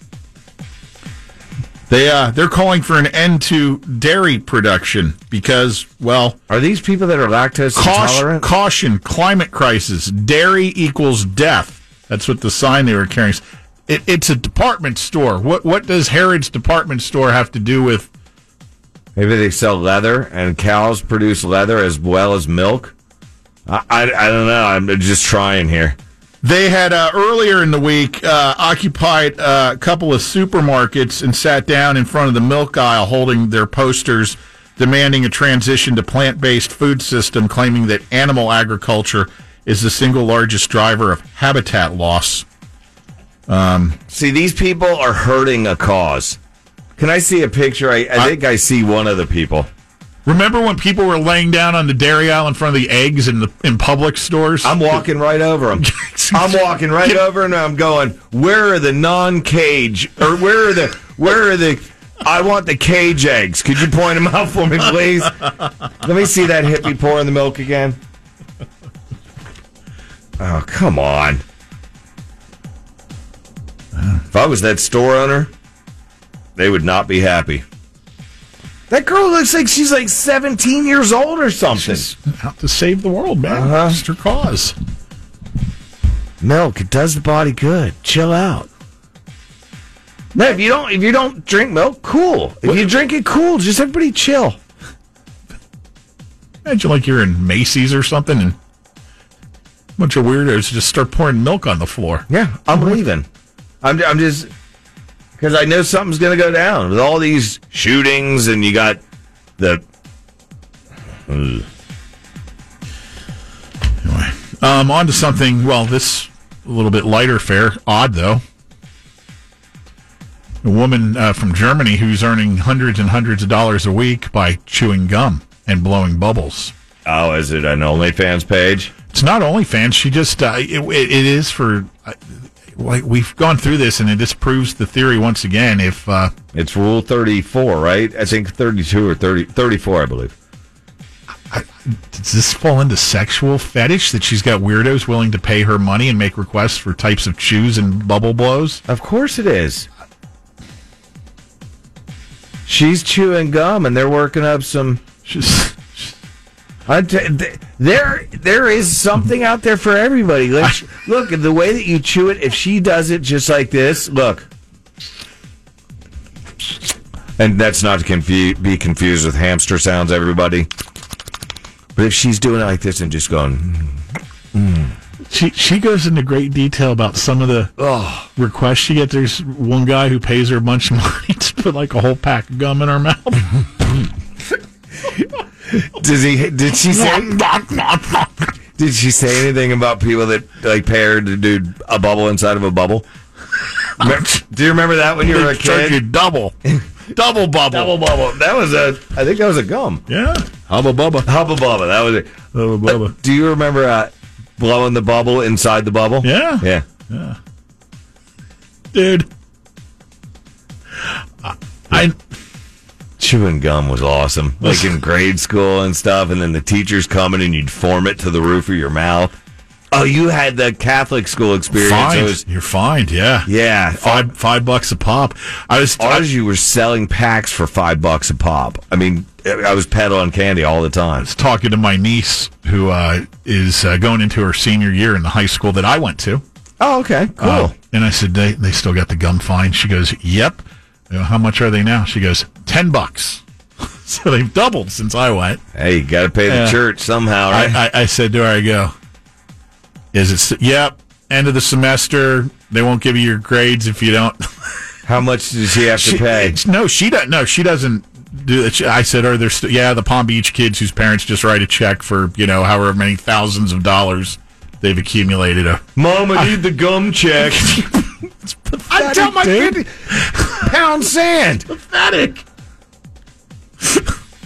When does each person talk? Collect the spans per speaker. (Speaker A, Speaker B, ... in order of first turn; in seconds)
Speaker A: 1.9-6.4, 7.7-18.1, 26.4-42.5, 43.5-44.0, 50.3-55.0, 55.8-57.2, 81.7-84.7, 92.7-93.0, 96.7-98.6, 100.0-102.9, 114.0-118.4, 120.6-126.7, 129.1-136.3, 141.5-148.8, 155.2-156.1, 175.3-177.8, 178.3-183.7, 186.9-188.5, 195.2-196.6, 197.1-198.0, 200.1-201.3, 202.5-203.2, 206.2-207.4, 208.9-209.3, 211.4-212.2, 214.6-214.9, 221.7-226.3, 231.2-236.4, 237.4-245.6, 246.5-246.8, 247.5-248.9, 250.1-254.7, 255.9-265.8, 267.4-270.8, 271.7-272.4, 273.8-274.1
Speaker B: 6.5-8.5, 19.2-22.9, 23.7-26.0, 44.1-46.4, 47.0-49.7, 54.6-68.0, 70.4-71.4, 74.3-75.5, 76.6-77.6, 78.9-82.0, 83.5-84.0, 86.4-88.7, 90.3-94.6, 102.3-103.3, 103.8-104.5, 105.4-109.0, 109.6-109.8, 111.3-111.7, 127.0-128.9, 136.5-140.3, 148.9-149.9, 152.7-155.0, 156.9-164.5, 167.4-170.7, 172.0-174.0, 174.5-174.9, 177.8-178.3, 185.7-187.4, 188.8-193.1, 194.0-196.0, 197.7-200.0, 201.2-206.8, 213.2-219.3, 219.9-222.4, 223.4-224.3, 226.0-231.3, 236.8-237.8, 245.7-247.8, 255.1-256.6, 266.0-267.8, 268.9-271.6